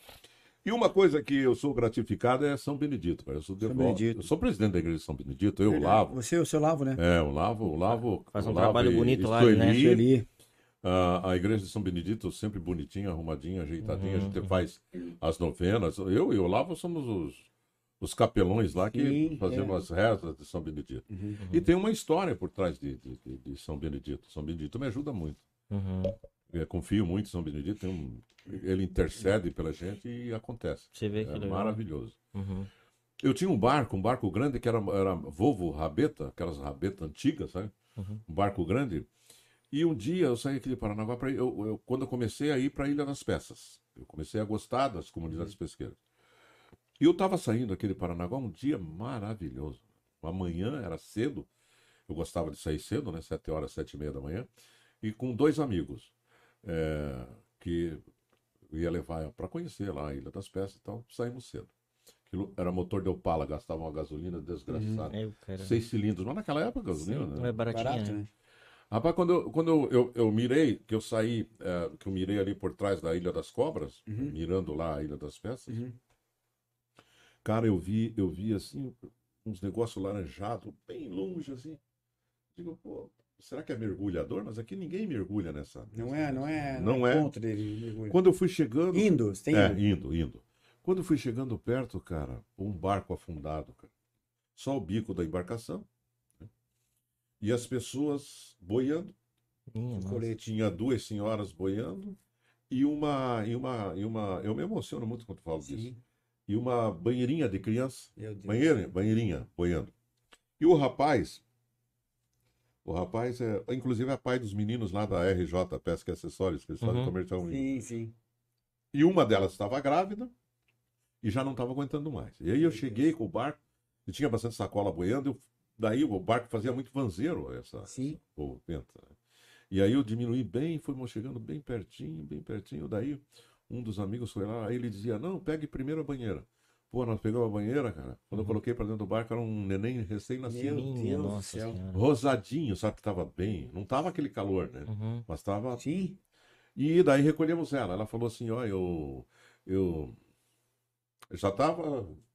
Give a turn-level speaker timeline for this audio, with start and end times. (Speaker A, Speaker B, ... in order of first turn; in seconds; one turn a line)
Speaker A: 0.6-6.2
Speaker B: 3.6-4.3
Speaker B: 5.7-7.0
Speaker A: 7.0-10.0
Speaker C: 8.3-9.9
Speaker B: 9.7-10.3
Speaker A: 10.8-17.5
Speaker C: 13.8-14.6
Speaker A: 18.0-25.4
Speaker B: 18.9-19.8
Speaker B: 21.1-21.4
Speaker C: 21.4-21.7
Speaker C: 25.7-26.2
Speaker A: 26.5-32.2
Speaker C: 30.9-31.8
Speaker C: 32.3-32.7
Speaker A: 33.2-37.7
Speaker A: 38.3-39.1
Speaker A: 39.7-46.0
Speaker A: 47.0-51.5
Speaker A: 52.1-54.5
Speaker A: 55.0-56.1
Speaker A: 56.6-58.0
Speaker A: 58.7-61.7
Speaker A: 62.3-67.6
Speaker B: 64.7-65.1
Speaker C: 65.1-65.8
Speaker C: 67.3-68.2
Speaker B: 67.7-68.3
Speaker A: 68.9-75.8
Speaker B: 74.1-74.3
Speaker B: 75.7-76.0
Speaker A: 77.4-81.8
Speaker A: 82.5-87.3
Speaker B: 85.9-88.2
Speaker A: 88.1-93.9
Speaker B: 88.9-89.8
Speaker A: 94.6-95.9
Speaker A: 97.4-99.1
Speaker C: 99.7-100.3
Speaker B: 99.9-100.4
Speaker A: 100.3-102.2
Speaker A: 102.7-105.9
Speaker B: 105.6-106.0
Speaker A: 106.5-109.9
Speaker B: 108.2-108.7
Speaker A: 110.6-111.4
Speaker A: 112.8-117.7
Speaker C: 116.8-117.1
Speaker B: 117.5-118.1
Speaker A: 118.9-120.3
Speaker A: 121.2-129.1
Speaker B: 122.6-123.0
Speaker B: 127.9-128.2
Speaker A: 129.7-140.9
Speaker B: 140.5-141.8
Speaker C: 140.7-142.0
Speaker A: 141.9-145.8
Speaker C: 144.9-145.2
Speaker B: 145.8-146.2
Speaker A: 146.8-150.2
Speaker A: 151.3-152.2